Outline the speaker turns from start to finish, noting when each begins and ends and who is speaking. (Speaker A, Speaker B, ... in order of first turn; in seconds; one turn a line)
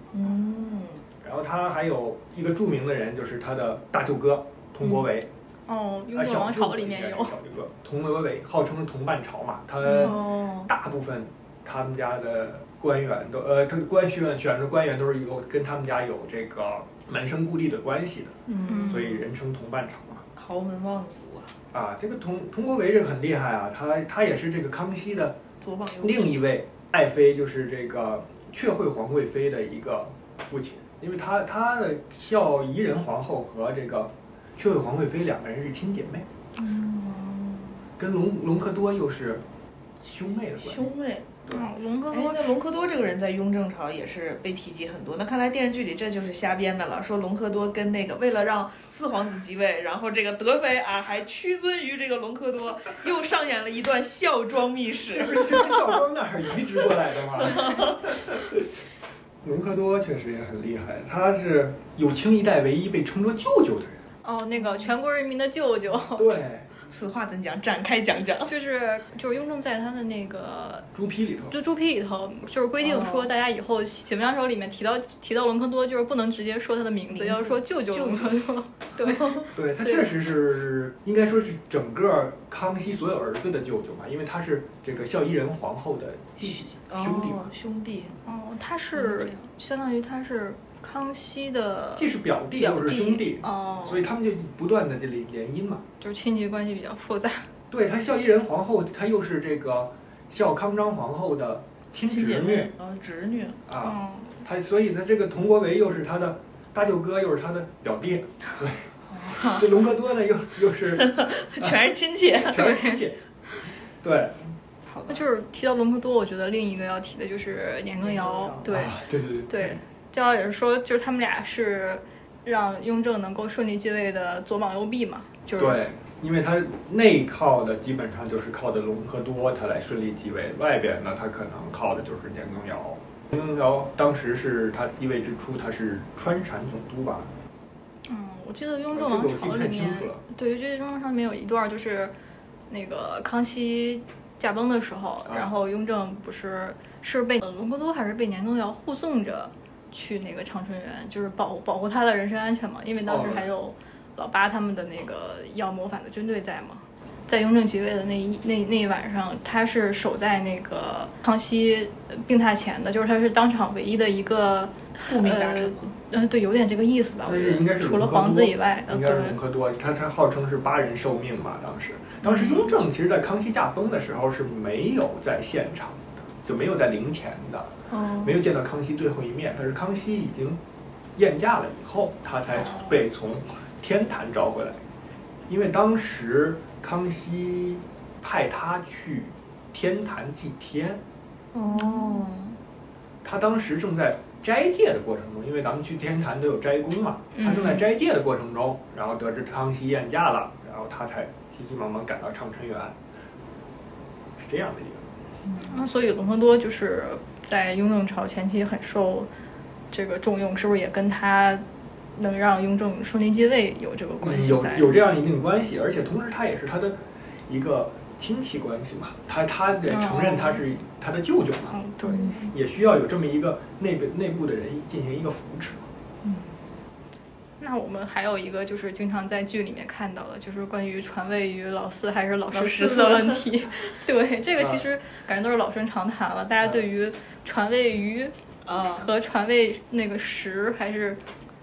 Speaker A: 0.1-1.1
Speaker B: 1.2-5.3
Speaker C: 5.7-7.3
Speaker B: 6.1-20.2
Speaker A: 9.9-10.7
Speaker A: 18.5-19.3
Speaker C: 18.7-19.2
Speaker A: 20.4-21.5
Speaker B: 21.7-25.4
Speaker A: 25.6-26.3
Speaker B: 26.0-36.3
Speaker A: 36.6-37.9
Speaker B: 38.0-39.4
Speaker B: 40.0-40.9
Speaker A: 40.6-55.9
Speaker C: 41.5-42.6
Speaker B: 55.1-58.7
Speaker A: 57.4-58.0
Speaker B: 59.4-64.0
Speaker C: 64.2-66.3
Speaker B: 66.1-66.7
Speaker A: 66.9-68.5
Speaker C: 68.5-70.9
Speaker B: 71.0-71.6
Speaker C: 71.5-80.1
Speaker A: 72.8-73.3
Speaker A: 77.1-78.4
Speaker A: 79.0-79.5
Speaker B: 79.5-87.5
Speaker A: 86.4-88.2
Speaker C: 88.3-94.1
Speaker A: 89.0-89.3
Speaker B: 92.0-95.8
Speaker C: 96.0-97.5
Speaker B: 97.7-102.7
Speaker A: 102.1-103.6
Speaker B: 103.7-108.9
Speaker C: 103.8-104.4
Speaker A: 109.1-109.7
Speaker B: 109.5-113.2
Speaker A: 110.9-112.6
Speaker C: 112.5-113.1
Speaker B: 114.0-114.5
Speaker A: 114.9-115.2
Speaker C: 115.1-119.0
Speaker A: 118.0-118.7
Speaker B: 118.7-119.8
Speaker C: 119.5-125.8
Speaker B: 125.6-137.3
Speaker C: 138.1-142.1
Speaker B: 138.9-140.2
Speaker C: 142.7-169.4
Speaker B: 153.1-153.5
Speaker A: 165.0-165.9
Speaker B: 167.2-180.6
Speaker C: 172.2-172.8
Speaker A: 177.9-178.4
Speaker B: 181.2-184.8
Speaker C: 182.5-183.0
Speaker B: 185.5-191.0
Speaker A: 191.5-192.6
Speaker C: 191.8-192.2
Speaker B: 193.2-203.0
Speaker C: 197.3-197.8
Speaker B: 204.4-205.1
Speaker C: 205.6-209.3
Speaker C: 209.9-211.6
Speaker C: 212.2-215.0
Speaker B: 214.2-221.8
Speaker C: 219.9-220.7
Speaker C: 221.7-222.4
Speaker A: 222.0-222.5
Speaker B: 222.5-225.9
Speaker A: 226.2-226.5
Speaker C: 227.6-238.3
Speaker A: 232.5-233.8
Speaker B: 234.6-234.9
Speaker A: 238.7-239.1
Speaker C: 239.0-241.2